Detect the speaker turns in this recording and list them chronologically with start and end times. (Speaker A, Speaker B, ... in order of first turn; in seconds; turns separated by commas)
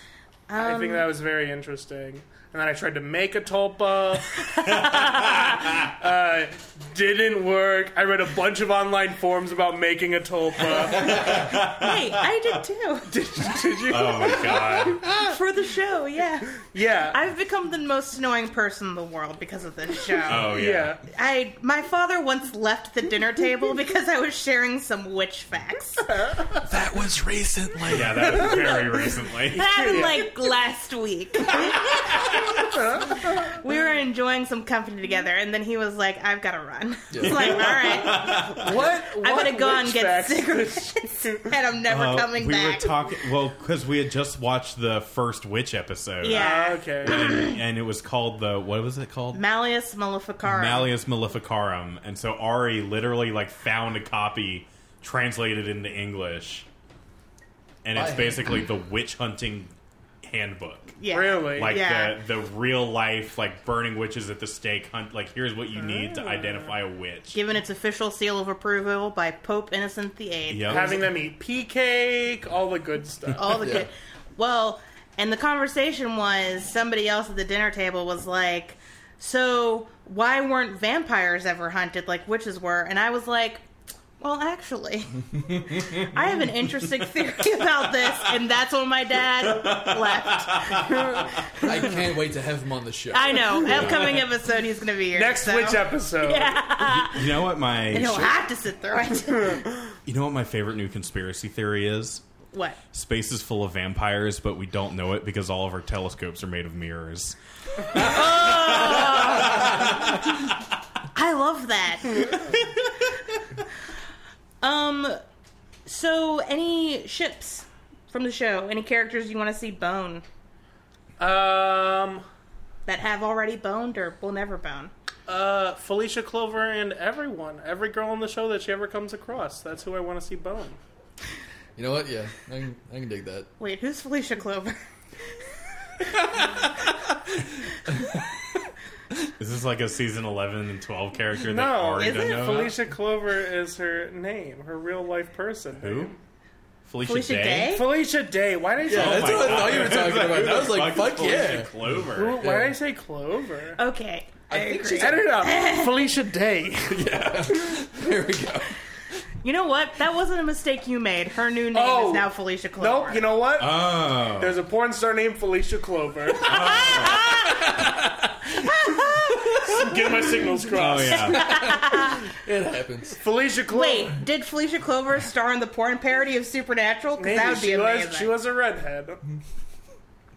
Speaker A: 0.5-1.1, Speaker B: 0.6-11.5, Speaker C: 4.9-5.6, Speaker C: 10.7-12.1, Speaker A: 11.0-13.1, Speaker B: 13.1-15.3, Speaker C: 13.8-15.0, Speaker A: 15.0-20.5, Speaker B: 16.6-17.2, Speaker C: 20.3-21.0, Speaker B: 20.3-21.0, Speaker A: 21.1-26.1, Speaker B: 26.2-26.6, Speaker D: 26.6-28.9, Speaker C: 27.9-29.6, Speaker B: 29.5-30.3, Speaker A: 29.5-31.9, Speaker B: 32.6-33.2, Speaker A: 33.3-38.4, Speaker D: 37.1-37.7, Speaker C: 37.2-38.8, Speaker B: 37.8-41.4, Speaker A: 39.1-42.9, Speaker C: 41.9-46.5, Speaker A: 46.2-47.1, Speaker B: 46.2-47.5, Speaker C: 47.0-49.4, Speaker A: 49.3-50.9, Speaker C: 50.4-56.6, Speaker C: 57.8-61.0, Speaker D: 57.9-58.5, Speaker A: 61.0-62.2, Speaker B: 61.1-61.8, Speaker C: 61.5-67.3, Speaker B: 65.8-66.7, Speaker A: 67.3-71.0, Speaker C: 70.5-70.9, Speaker B: 70.7-73.6, Speaker A: 73.3-83.6, Speaker D: 73.6-73.9, Speaker A: 84.2-91.0, Speaker D: 85.5-86.0, Speaker C: 89.4-91.8, Speaker B: 90.9-91.2, Speaker D: 91.6-94.0, Speaker A: 93.1-97.3, Speaker B: 93.6-94.0, Speaker B: 95.1-96.6, Speaker C: 96.9-98.4, Speaker A: 97.9-99.7, Speaker C: 100.0-102.2, Speaker A: 102.5-102.8, Speaker C: 102.9-110.2, Speaker A: 107.9-109.8, Speaker A: 111.1-112.8, Speaker A: 114.6-115.2, Speaker A: 115.8-120.2, Speaker B: 121.2-122.2, Speaker A: 122.8-124.9, Speaker B: 125.3-130.8, Speaker D: 131.8-133.5, Speaker A: 133.6-134.8, Speaker C: 139.4-142.8, Speaker B: 141.4-146.2, Speaker A: 142.0-142.6, Speaker C: 145.8-146.1, Speaker C: 146.8-147.8, Speaker A: 147.0-147.9, Speaker B: 147.7-150.1, Speaker D: 148.8-151.8, Speaker C: 148.8-152.4, Speaker B: 152.1-153.8, Speaker D: 152.4-152.8, Speaker A: 153.8-156.0, Speaker D: 154.5-155.5, Speaker B: 155.0-157.1, Speaker D: 156.9-158.8, Speaker A: 159.4-163.3, Speaker B: 161.7-167.1, Speaker C: 163.6-164.6, Speaker C: 166.4-167.8, Speaker A: 166.5-167.6, Speaker A: 168.6-169.4, Speaker D: 169.3-170.1, Speaker B: 169.5-171.6, Speaker C: 170.7-171.7, Speaker A: 171.2-172.2, Speaker D: 171.6-173.2, Speaker B: 173.2-174.2, Speaker A: 173.7-178.3, Speaker B: 177.2-179.2